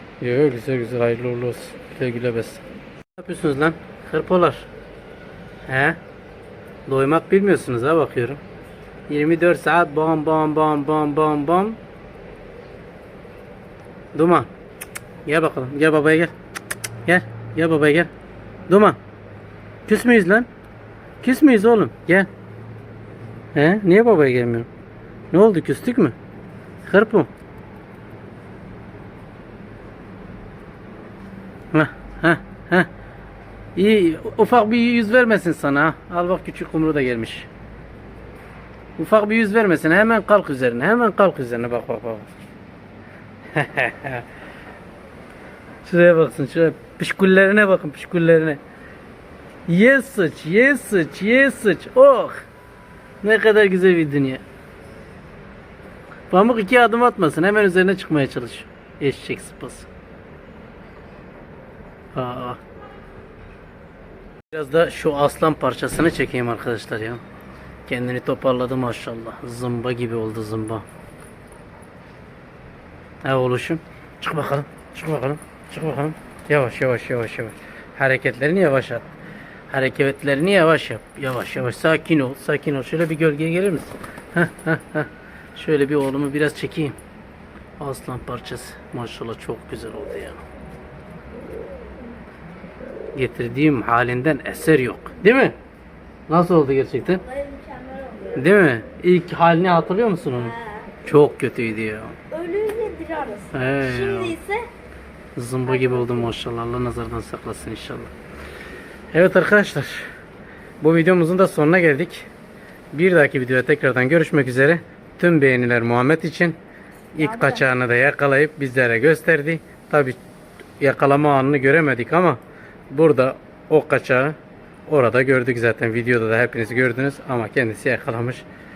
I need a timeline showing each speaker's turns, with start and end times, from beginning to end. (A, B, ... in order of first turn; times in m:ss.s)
0:00.2-0:02.6 A
0:03.2-0:04.7 A
0:05.7-0:06.0 A
0:06.9-0:08.4 A
0:09.1-0:11.8 A
0:14.1-0:14.5 A
0:15.2-0:16.3 A
0:17.0-0:18.1 A
0:18.7-0:19.0 A
0:19.9-0:20.5 A
0:21.2-0:22.3 A
0:23.5-0:24.7 A
0:25.3-0:26.1 A
0:26.8-0:27.3 A
0:31.7-0:32.9 A
0:33.7-0:37.5 A
0:39.0-0:42.3 A
0:43.5-0:44.2 A
0:45.8-0:48.6 A
0:49.7-0:52.4 A
0:53.2-0:54.4 A
0:56.3-0:59.9 A
1:02.1-1:02.6 A
1:04.5-1:07.2 A
1:07.9-1:10.8 A
1:13.2-1:19.1 A
1:19.7-1:27.0 A
1:27.8-1:30.4 A
1:33.1-1:35.6 A
1:36.3-1:37.2 A
1:37.0-1:38.5 B
1:38.3-1:42.1 A
1:40.3-1:40.9 B
1:42.3-1:44.6 B
1:43.5-1:44.4 A
1:45.4-1:48.1 A
1:45.6-1:46.3 B
1:49.1-1:50.0 A
1:50.8-1:52.3 A
1:52.9-1:56.6 A
1:57.1-2:00.2 A
1:57.1-1:57.6 B
2:00.8-2:04.4 A
2:04.9-2:08.4 A